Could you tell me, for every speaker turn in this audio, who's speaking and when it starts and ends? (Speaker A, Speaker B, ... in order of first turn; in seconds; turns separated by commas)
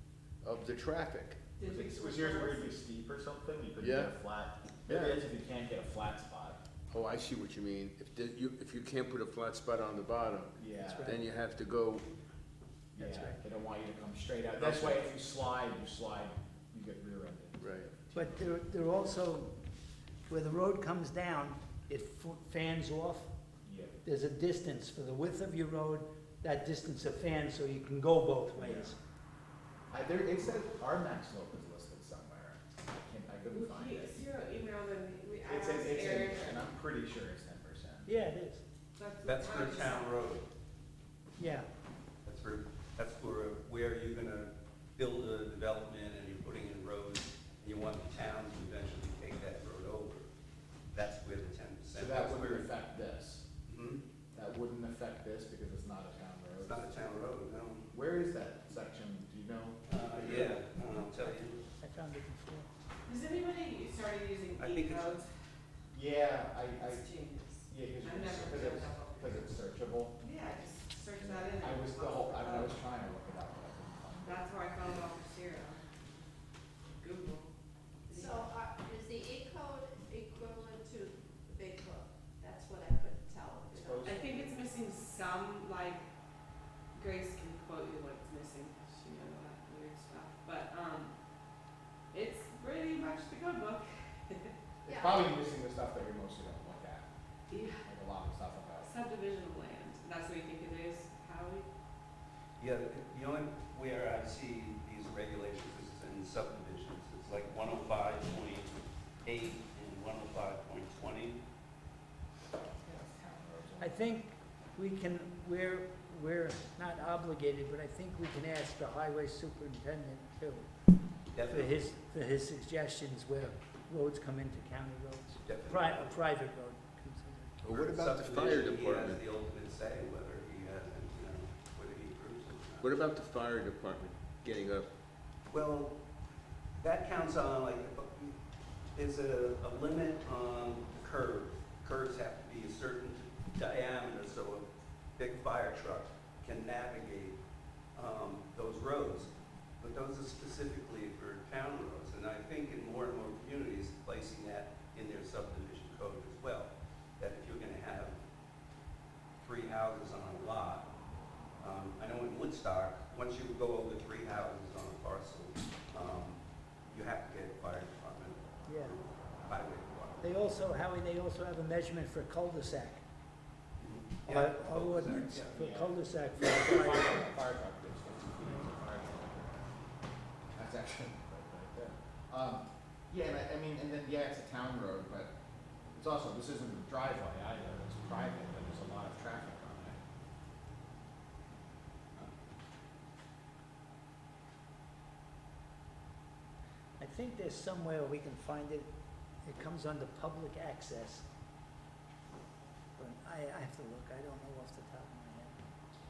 Speaker A: 0.4-1.4, Speaker B: 1.6-2.7, Speaker C: 1.6-6.6, Speaker A: 3.8-4.1, Speaker A: 4.9-5.2, Speaker A: 6.9-10.5, Speaker C: 10.6-11.1, Speaker D: 10.8-11.2, Speaker A: 11.1-12.1, Speaker C: 12.9-18.5, Speaker D: 13.0-13.4, Speaker A: 14.6-15.1, Speaker A: 17.6-17.9, Speaker D: 18.1-19.5, Speaker D: 20.3-23.3, Speaker C: 23.6-24.0, Speaker D: 24.0-29.0, Speaker C: 28.6-28.9, Speaker C: 29.9-34.2, Speaker B: 33.5-36.7, Speaker C: 35.4-38.1, Speaker D: 38.0-38.6, Speaker B: 39.0-40.2, Speaker E: 39.2-40.5, Speaker D: 41.4-41.7, Speaker E: 42.2-50.3, Speaker E: 50.9-52.7, Speaker C: 52.0-53.5, Speaker E: 53.7-54.0, Speaker C: 54.4-57.0, Speaker E: 56.6-57.9, Speaker C: 57.9-60.6, Speaker E: 59.9-61.6, Speaker D: 61.0-62.7, Speaker B: 63.1-65.3, Speaker E: 64.6-65.2, Speaker C: 65.9-70.2, Speaker B: 66.7-69.5, Speaker B: 70.2-72.8, Speaker C: 71.2-75.0, Speaker B: 74.2-76.2, Speaker B: 77.0-77.5, Speaker B: 78.1-78.5, Speaker F: 78.1-84.0, Speaker C: 83.7-84.6, Speaker B: 84.0-86.1, Speaker B: 86.9-91.1, Speaker B: 92.1-94.5, Speaker F: 94.9-95.4, Speaker C: 94.9-97.1, Speaker B: 97.5-97.8, Speaker C: 97.8-98.9, Speaker B: 98.8-101.7, Speaker E: 102.6-111.4, Speaker C: 112.6-114.2, Speaker D: 113.8-120.7, Speaker E: 121.3-121.9, Speaker D: 121.5-127.6, Speaker E: 125.4-126.2, Speaker A: 127.6-129.2, Speaker E: 127.7-133.0, Speaker A: 132.8-134.9, Speaker E: 135.5-136.0, Speaker E: 136.8-138.4, Speaker E: 138.9-144.7, Speaker E: 145.2-147.4, Speaker E: 148.0-158.2, Speaker E: 159.4-160.9, Speaker E: 161.6-170.3, Speaker D: 168.7-168.9, Speaker D: 170.2-173.0, Speaker E: 173.8-175.6, Speaker D: 174.3-177.3, Speaker C: 175.5-179.7, Speaker C: 180.6-185.3, Speaker C: 185.9-190.0, Speaker D: 197.0-198.9, Speaker D: 199.4-201.3, Speaker D: 203.0-205.6